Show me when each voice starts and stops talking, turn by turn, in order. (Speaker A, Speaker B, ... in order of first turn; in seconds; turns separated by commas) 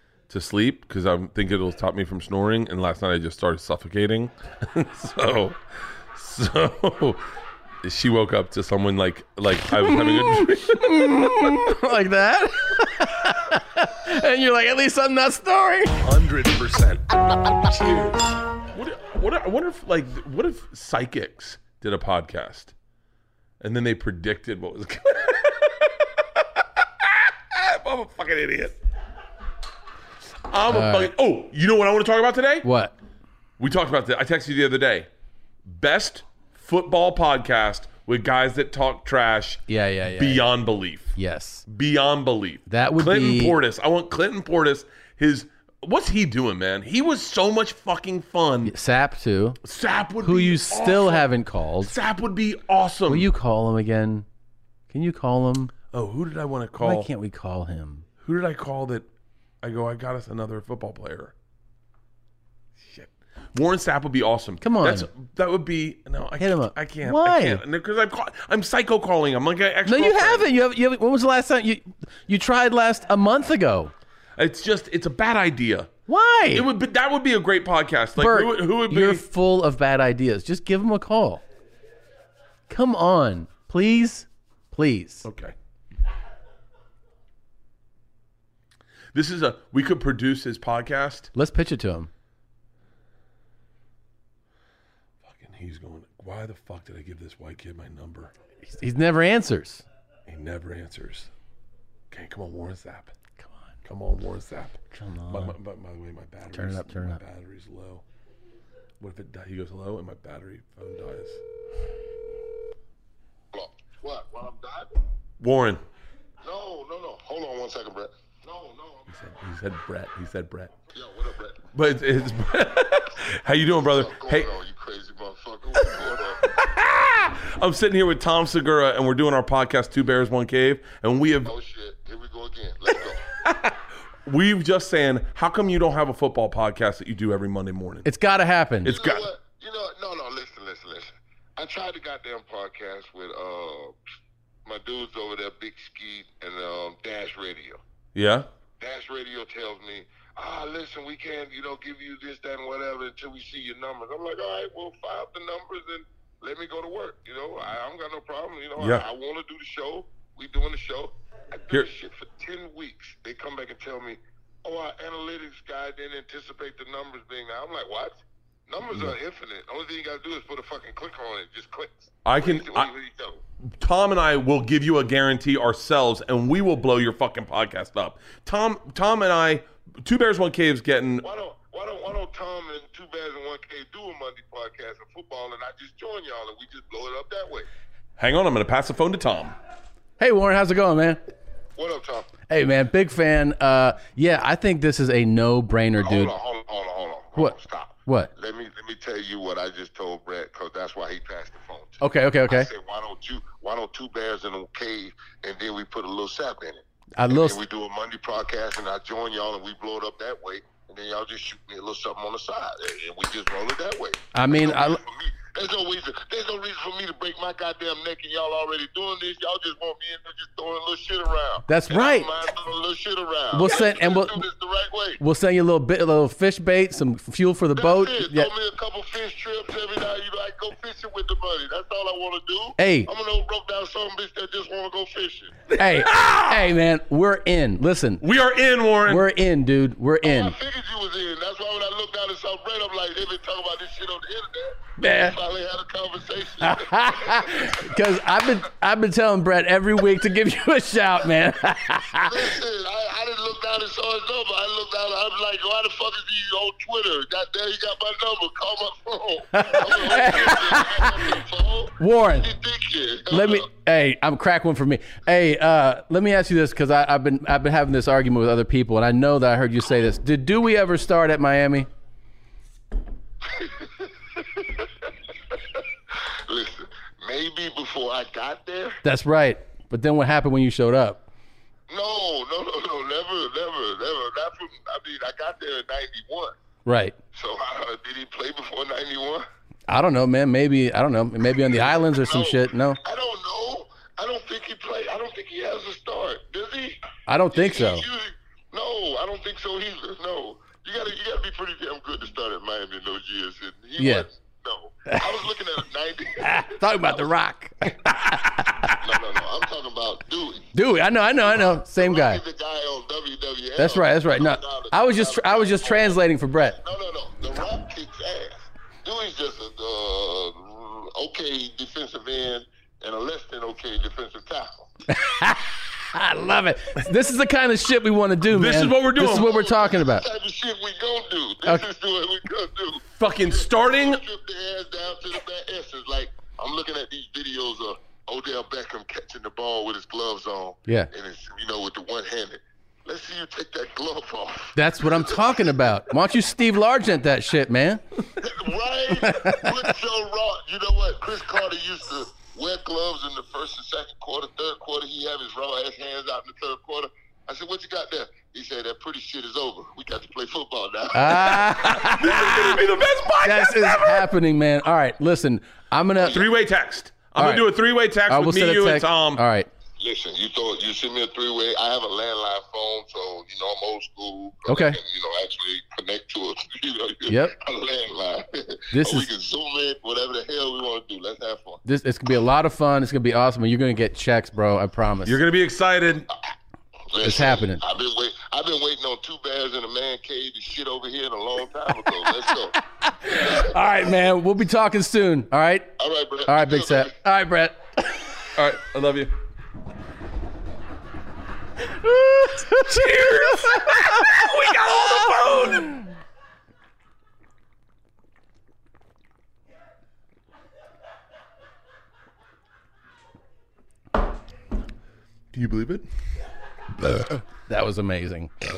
Speaker A: 0.3-5.6, Speaker A: 6.1-7.2, Speaker A: 7.8-11.7, Speaker B: 9.7-16.1, Speaker A: 16.0-22.7, Speaker A: 23.6-28.8, Speaker A: 30.5-32.7, Speaker B: 30.7-31.1, Speaker B: 32.6-32.9, Speaker A: 33.6-35.1, Speaker A: 35.7-39.6, Speaker B: 39.7-40.5, Speaker A: 40.2-41.1, Speaker B: 41.1-41.6, Speaker A: 41.7-48.8, Speaker B: 42.7-43.6, Speaker B: 48.6-49.6, Speaker A: 49.6-51.3, Speaker B: 50.2-52.0, Speaker A: 51.8-53.3, Speaker B: 53.1-54.3, Speaker B: 54.9-55.7, Speaker A: 55.9-57.1, Speaker B: 56.8-58.1, Speaker A: 58.2-59.1, Speaker A: 59.6-61.3, Speaker A: 62.8-70.5, Speaker B: 64.6-65.1, Speaker B: 66.4-67.6, Speaker B: 69.9-73.9, Speaker A: 74.4-75.9, Speaker B: 76.1-76.7, Speaker A: 76.5-79.2, Speaker B: 78.2-81.4, Speaker B: 82.7-85.3, Speaker A: 85.2-85.5, Speaker A: 89.1-91.3, Speaker B: 91.3-92.1, Speaker A: 95.2-98.3, Speaker B: 98.6-99.8, Speaker A: 100.3-101.3, Speaker A: 102.1-103.1, Speaker B: 103.4-103.7, Speaker A: 103.8-108.0, Speaker B: 104.9-105.6, Speaker B: 106.5-107.2, Speaker A: 109.0-111.4, Speaker C: 113.5-114.9, Speaker A: 115.4-115.8, Speaker C: 116.4-119.1, Speaker A: 119.1-120.7, Speaker C: 120.9-121.6, Speaker A: 121.7-124.5, Speaker C: 123.9-126.4, Speaker A: 125.8-131.5, Speaker C: 131.4-133.2, Speaker A: 133.4-133.8, Speaker A: 134.3-138.1, Speaker B: 138.1-138.9, Speaker A: 138.8-139.3, Speaker C: 138.8-143.9, Speaker C: 144.7-147.8, Speaker A: 148.2-148.5, Speaker C: 148.8-173.4, Speaker A: 158.8-159.1, Speaker A: 172.2-172.9, Speaker A: 173.8-181.2, Speaker C: 181.2-187.7, Speaker A: 188.2-189.6, Speaker B: 190.2-191.2, Speaker C: 191.8-192.3, Speaker B: 192.5-196.3, Speaker C: 196.0-225.2, Speaker B: 197.4-198.3, Speaker B: 202.0-202.7, Speaker B: 207.2-207.6, Speaker B: 214.3-215.0, Speaker B: 221.7-222.3, Speaker B: 223.5-224.5, Speaker B: 225.2-228.5, Speaker C: 227.8-235.5, Speaker B: 232.8-233.1, Speaker A: 235.7-236.7, Speaker B: 235.8-238.2, Speaker A: 238.2-239.3, Speaker B: 239.1-240.6, Speaker C: 240.2-247.8, Speaker B: 245.0-245.4, Speaker B: 246.6-252.6, Speaker C: 252.2-263.6, Speaker B: 259.5-261.4, Speaker B: 262.0-262.5, Speaker B: 263.3-271.9, Speaker C: 273.4-279.0, Speaker B: 279.0-281.2, Speaker C: 281.9-286.6, Speaker B: 286.9-287.2, Speaker C: 287.3-289.4, Speaker B: 289.9-293.0, Speaker C: 291.5-297.0, Speaker B: 297.3-298.1, Speaker C: 297.5-307.2, Speaker B: 304.0-304.3, Speaker B: 305.1-305.5, Speaker B: 306.4-308.9, Speaker C: 309.0-310.7, Speaker B: 310.7-312.4, Speaker C: 311.9-316.2, Speaker B: 313.8-316.8, Speaker C: 316.7-324.9, Speaker B: 325.1-330.3, Speaker A: 328.5-329.5, Speaker C: 329.3-345.6, Speaker A: 333.1-334.2, Speaker B: 344.8-348.0, Speaker C: 348.4-361.8, Speaker B: 361.1-362.8, Speaker A: 361.8-364.3, Speaker B: 363.4-366.4, Speaker A: 366.2-369.4, Speaker B: 367.4-367.7, Speaker B: 368.3-369.7, Speaker C: 370.0-381.8, Speaker B: 374.7-375.0, Speaker B: 377.3-377.6, Speaker B: 378.9-379.3, Speaker B: 381.9-385.4, Speaker A: 385.2-386.3, Speaker C: 387.1-392.8, Speaker B: 387.2-387.8, Speaker B: 393.0-395.9, Speaker C: 393.4-393.7, Speaker C: 396.0-397.1, Speaker B: 396.5-398.3, Speaker A: 398.6-399.3, Speaker B: 401.8-405.3, Speaker A: 402.9-406.0, Speaker A: 415.5-416.1, Speaker B: 417.1-418.5